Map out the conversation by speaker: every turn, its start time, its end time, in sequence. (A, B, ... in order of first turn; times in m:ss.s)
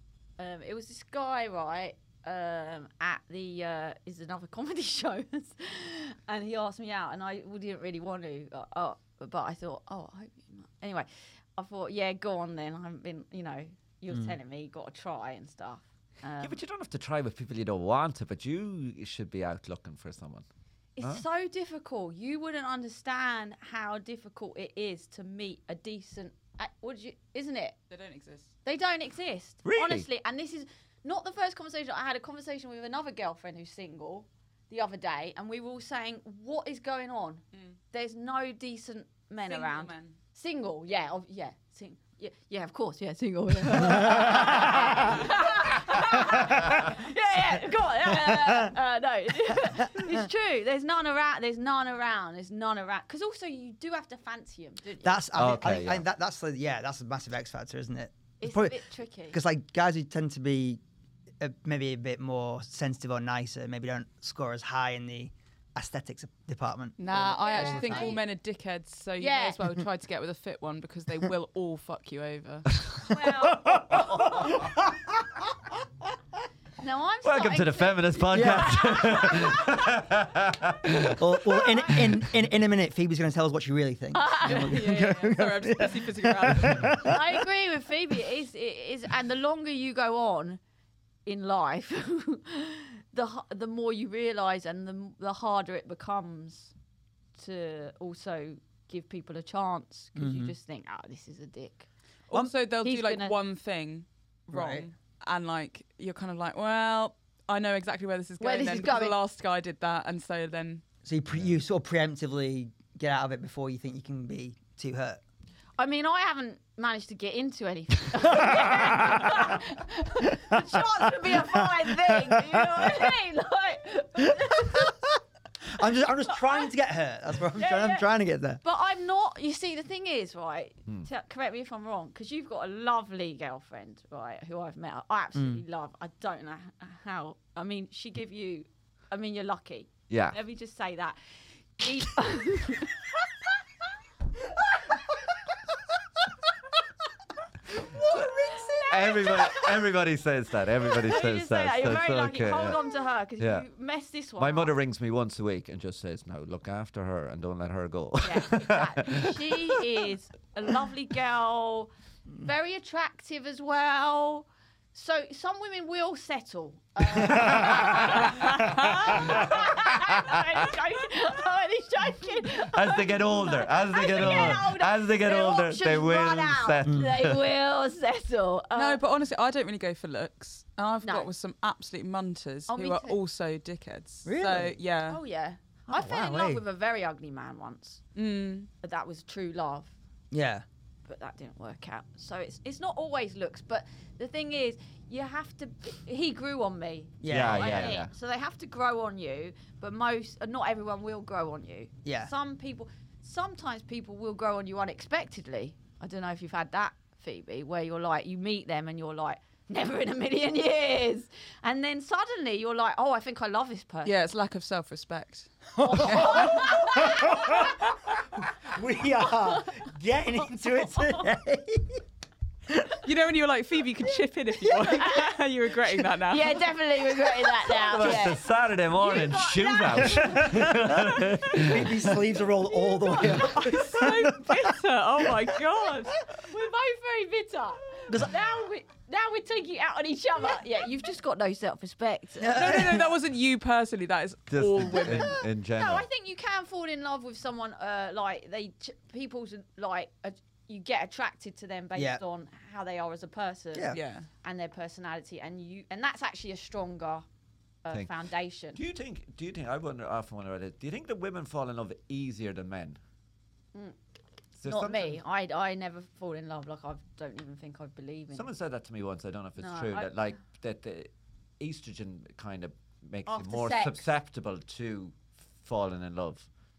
0:00.4-0:16.6 A
0:16.4-0:20.4 B
0:21.0-0:27.8 A
0:27.9-0:28.5 C
0:28.6-0:55.3 A
0:29.6-0:30.0 B
0:39.5-0:40.2 C
0:43.8-0:45.3 D
0:46.0-0:46.6 D
0:48.0-0:48.7 D
0:49.5-0:50.2 D
0:55.0-0:58.8 D
0:55.3-0:56.0 B
0:58.4-0:59.4 A
0:59.3-1:00.8 D
1:01.4-1:08.2 D
1:07.0-1:12.8 C
1:07.1-1:08.2 A
1:09.2-1:09.6 A
1:13.0-1:14.6 A
1:13.1-1:15.4 D
1:13.7-1:14.7 B
1:16.8-1:19.9 A
1:17.2-1:22.2 B
1:18.3-1:19.4 D
1:21.1-1:27.4 D
1:24.1-1:24.9 A
1:24.4-1:27.1 C
1:27.0-1:30.6 A
1:31.2-1:36.7 A
1:37.4-1:41.9 A
1:40.2-1:40.5 D
1:42.3-1:50.8 C
1:42.8-1:43.4 A
1:44.5-1:44.9 D
1:48.4-1:49.2 A
1:51.0-1:55.2 D
1:55.8-2:04.9 A
1:58.2-1:59.6 D
2:00.5-2:03.1 D
2:04.2-2:08.6 D
2:07.5-2:08.1 A
2:08.6-2:21.2 A
2:15.3-2:15.6 D
2:20.1-2:20.4 B
2:21.8-2:23.2 A
2:27.7-2:29.5 D
2:28.0-2:29.8 A
2:28.0-2:32.8 B
2:31.0-2:34.7 A
2:33.4-2:33.6 B
2:34.4-2:40.0 B
2:38.2-2:59.0 A
2:47.3-2:48.1 D
2:47.3-2:48.4 B
2:49.3-2:50.4 B
2:52.6-2:57.4 B
2:56.8-2:57.1 D
2:58.7-3:05.2 C
3:01.0-3:01.3 A
3:02.7-3:03.2 A
3:04.2-3:04.8 D
3:05.1-3:08.0 A
3:05.9-3:06.6 D
3:08.2-3:08.7 C
3:08.8-3:09.9 A
3:10.3-3:10.6 D
3:11.0-3:34.1 A
3:17.2-3:18.0 D
3:17.3-3:18.1 B
3:22.0-3:22.3 D
3:34.0-3:35.5 C
3:35.8-3:37.8 D
3:35.8-3:37.8 A
3:36.0-3:36.8 C
3:38.6-3:42.0 D
3:39.5-3:39.8 A
3:40.8-3:41.2 A
3:42.7-3:43.0 D
3:43.0-3:46.7 C
3:44.5-3:46.0 D
3:46.3-3:48.4 A
3:47.2-3:48.1 D
3:47.8-3:52.2 B
3:49.0-3:50.9 A
3:50.2-3:55.5 D
3:53.0-3:56.1 C
3:53.1-3:53.7 A
3:55.3-4:03.0 A
3:58.1-3:58.3 D
4:02.4-4:03.1 D
4:02.4-4:05.4 C
4:04.5-4:06.0 B
4:05.7-4:17.2 A
4:12.0-4:12.2 D
4:13.7-4:14.0 D
4:13.9-4:14.3 C
4:17.8-4:18.8 A
4:18.7-4:23.0 B
4:24.6-4:25.2 B
4:24.6-4:28.5 A
4:28.3-4:36.5 B
4:29.6-4:30.1 A
4:33.2-4:34.1 A